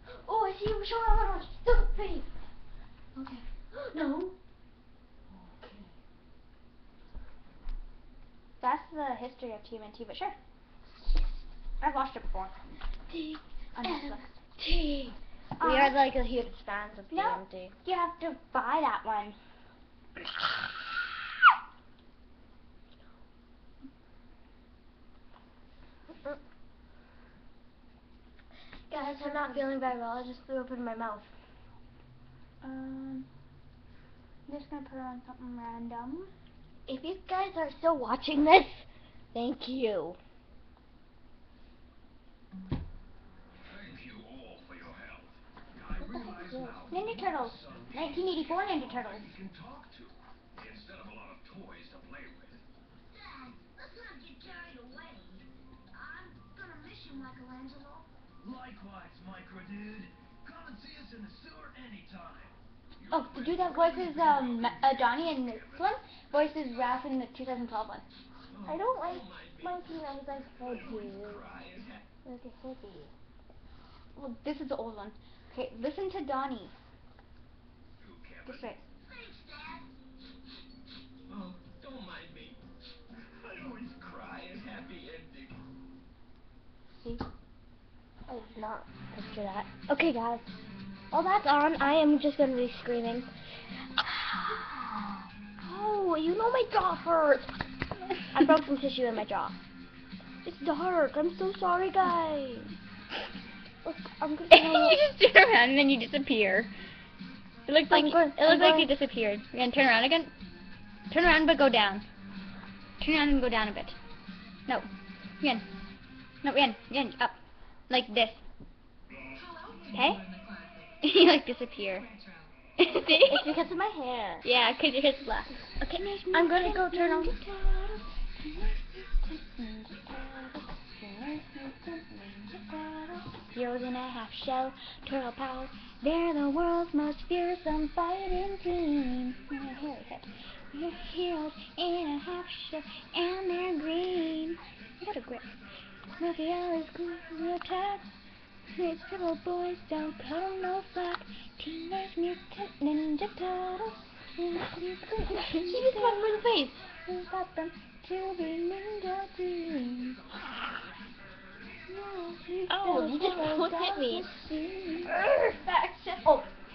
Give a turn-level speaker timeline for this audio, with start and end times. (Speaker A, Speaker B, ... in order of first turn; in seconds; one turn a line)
Speaker A: 0.2-2.3
Speaker B: 3.2-3.4
Speaker A: 3.7-4.3
Speaker C: 5.4-5.8
Speaker B: 8.6-10.4
Speaker B: 11.8-12.6
Speaker A: 13.1-17.7
Speaker B: 13.8-14.3
Speaker B: 15.6-16.0
Speaker B: 17.1-19.4
Speaker A: 28.9-31.3
Speaker B: 28.9-29.7
Speaker B: 32.6-33.3
Speaker B: 34.5-36.3
Speaker A: 36.9-40.2
Speaker D: 43.7-52.6
Speaker A: 46.0-46.8
Speaker B: 46.9-49.3
Speaker C: 53.1-58.1
Speaker D: 58.4-65.8
Speaker B: 63.1-68.0
Speaker D: 68.5-69.9
Speaker A: 68.7-71.5
Speaker D: 70.6-72.0
Speaker A: 72.2-73.1
Speaker B: 74.2-76.7
Speaker D: 78.0-78.8
Speaker B: 78.5-78.8
Speaker C: 79.2-79.8
Speaker D: 81.3-82.6
Speaker D: 83.2-85.6
Speaker A: 88.3-90.5
Speaker A: 91.1-93.3
Speaker A: 94.0-94.7
Speaker A: 95.6-97.5
Speaker A: 98.3-99.6
Speaker A: 100.5-102.7
Speaker A: 103.8-105.0
Speaker B: 104.5-106.7
Speaker B: 107.7-110.3
Speaker A: 107.9-108.9
Speaker B: 111.1-112.0
Speaker B: 113.0-114.0
Speaker B: 116.4-117.4
Speaker B: 117.9-118.4
Speaker C: 119.3-122.5
Speaker B: 119.9-120.2
Speaker B: 121.0-122.1
Speaker B: 122.8-123.6
Speaker A: 123.1-124.5
Speaker B: 124.4-127.4
Speaker A: 126.3-128.1
Speaker B: 128.4-145.5
Speaker B: 146.2-148.1
Speaker B: 148.7-156.3
Speaker A: 155.3-156.8
Speaker B: 157.0-160.2
Speaker A: 161.9-164.5
Speaker B: 162.7-166.3
Speaker A: 165.0-165.6